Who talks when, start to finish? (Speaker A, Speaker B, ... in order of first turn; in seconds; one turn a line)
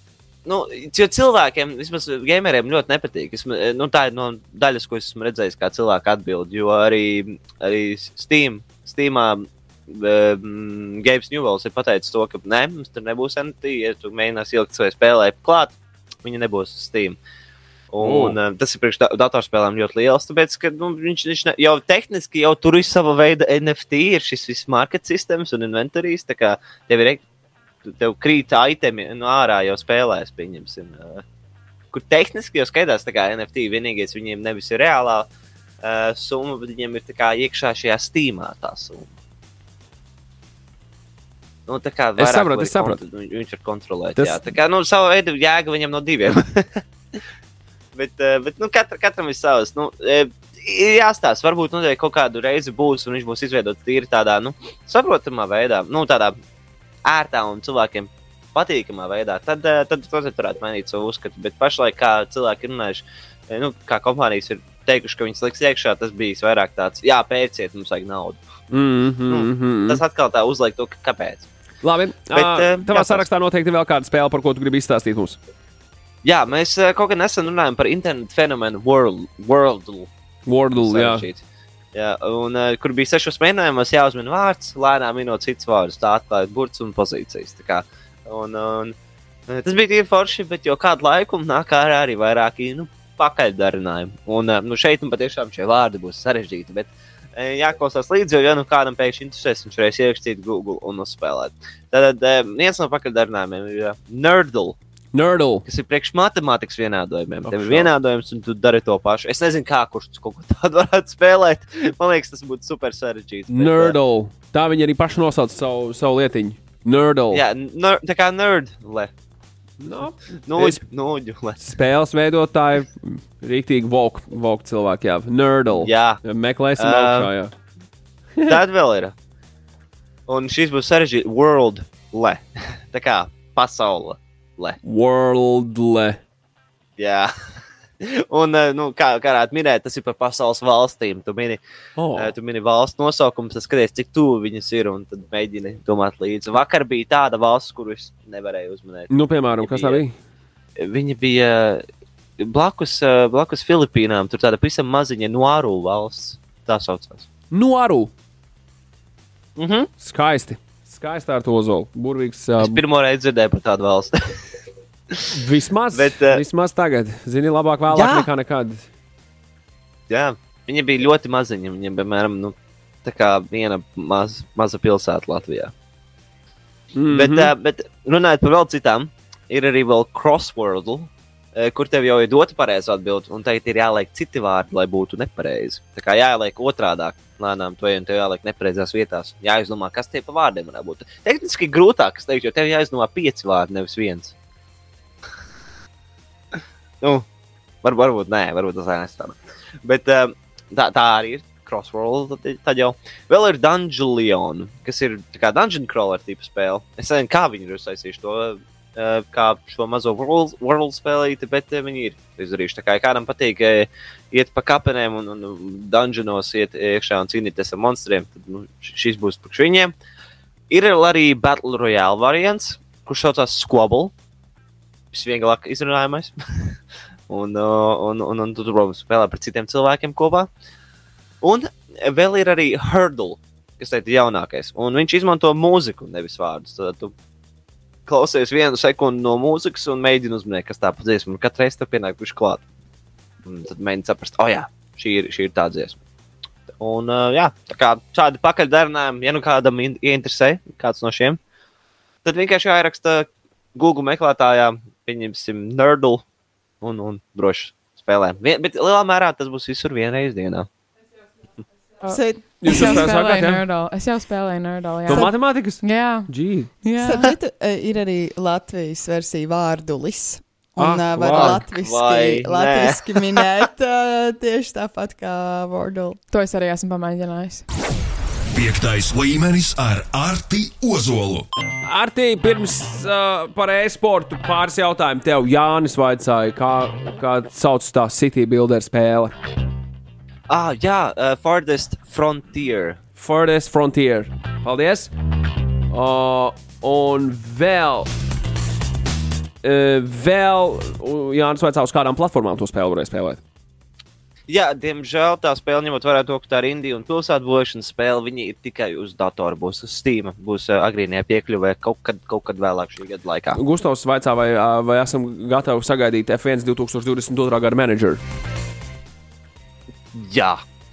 Speaker A: 0.5-17.2
Speaker A: 17.9-27.2
Speaker B: 18.0-18.4
Speaker A: 27.9-31.2
Speaker A: 31.9-35.3
Speaker A: 35.8-39.1
Speaker A: 41.7-46.8
Speaker B: 42.2-43.0
Speaker A: 48.0-56.3
Speaker A: 57.1-68.4
Speaker B: 68.7-70.0
Speaker A: 69.3-71.5
Speaker B: 71.8-75.4
Speaker A: 72.3-73.3
Speaker A: 76.2-80.1
Speaker B: 80.5-81.3
Speaker A: 80.7-81.4
Speaker A: 82.0-88.9
Speaker A: 89.5-104.8
Speaker B: 105.1-105.6
Speaker A: 105.7-114.0
Speaker B: 107.5-107.9
Speaker B: 113.5-117.4
Speaker A: 117.3-119.1
Speaker B: 119.8-120.8
Speaker A: 120.5-121.6
Speaker B: 121.6-127.5
Speaker A: 125.7-126.2
Speaker A: 126.8-127.3
Speaker A: 128.4-129.1
Speaker A: 130.3-134.8
Speaker B: 134.8-136.2
Speaker A: 137.0-137.3
Speaker A: 138.0-141.6
Speaker B: 142.0-142.3
Speaker A: 142.2-149.1
Speaker B: 149.1-150.1
Speaker A: 149.6-150.0
Speaker A: 150.8-151.8
Speaker A: 152.4-157.3
Speaker B: 157.5-158.1
Speaker A: 159.6-159.9
Speaker B: 160.0-162.8
Speaker A: 162.6-164.4
Speaker B: 165.3-168.9
Speaker A: 165.9-166.4
Speaker A: 167.9-168.3
Speaker A: 170.1-172.5
Speaker A: 173.1-175.7
Speaker B: 177.0-177.5
Speaker A: 177.1-194.3
Speaker A: 197.8-219.9
Speaker A: 220.7-224.1
Speaker A: 225.1-226.8
Speaker A: 227.3-230.5
Speaker A: 231.4-237.1
Speaker A: 238.1-242.6
Speaker A: 243.4-246.0
Speaker A: 246.8-251.4
Speaker A: 252.2-256.2
Speaker A: 256.8-260.7
Speaker C: 262.1-263.0
Speaker B: 262.6-263.7
Speaker D: 262.8-267.3
Speaker B: 265.1-266.7
Speaker C: 267.0-276.2
Speaker B: 270.8-271.6
Speaker A: 271.1-273.2
Speaker D: 276.3-277.6
Speaker E: 278.5-281.5
Speaker B: 281.9-289.3
Speaker A: 290.5-293.0
Speaker B: 293.2-295.1
Speaker B: 295.9-298.1
Speaker B: 299.6-303.4
Speaker A: 304.5-313.6
Speaker B: 313.6-318.2
Speaker A: 320.1-320.6